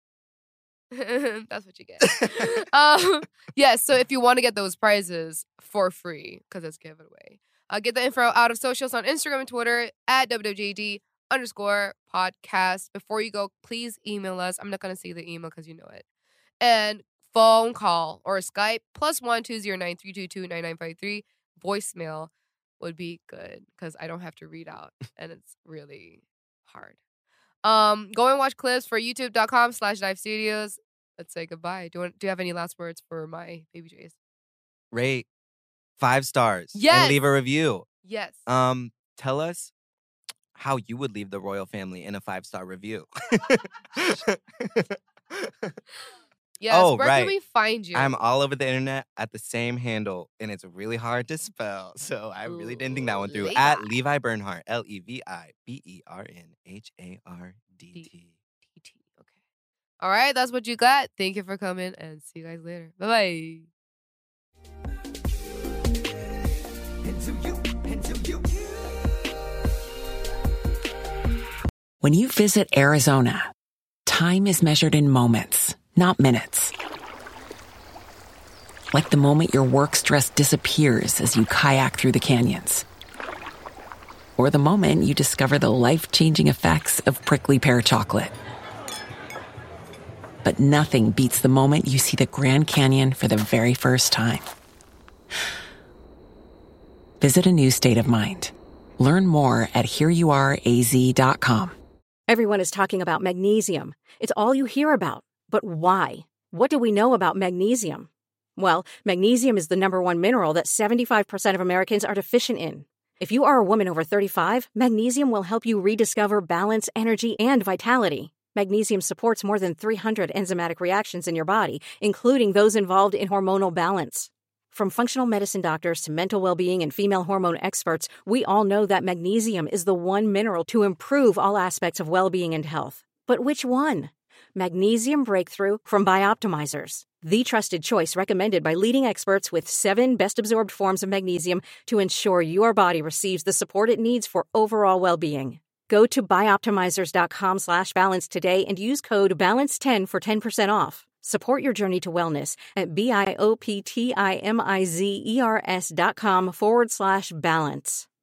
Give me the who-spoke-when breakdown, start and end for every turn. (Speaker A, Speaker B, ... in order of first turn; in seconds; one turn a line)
Speaker A: 0.9-16.0
Speaker B: 2.0-2.5
Speaker A: 16.6-27.0
Speaker A: 27.6-34.1
Speaker B: 34.9-35.3
Speaker B: 36.0-37.9
Speaker A: 36.7-37.2
Speaker A: 38.0-38.5
Speaker B: 38.5-39.7
Speaker B: 40.5-45.8
Speaker A: 46.6-48.2
Speaker B: 46.7-47.4
Speaker B: 47.9-58.3
Speaker A: 52.4-53.9
Speaker A: 58.7-59.4
Speaker A: 60.0-63.7
Speaker C: 72.0-73.5
Speaker C: 74.0-76.7
Speaker C: 78.9-82.8
Speaker C: 84.4-88.3
Speaker C: 90.4-94.5
Speaker C: 97.2-101.7
Speaker D: 102.3-158.0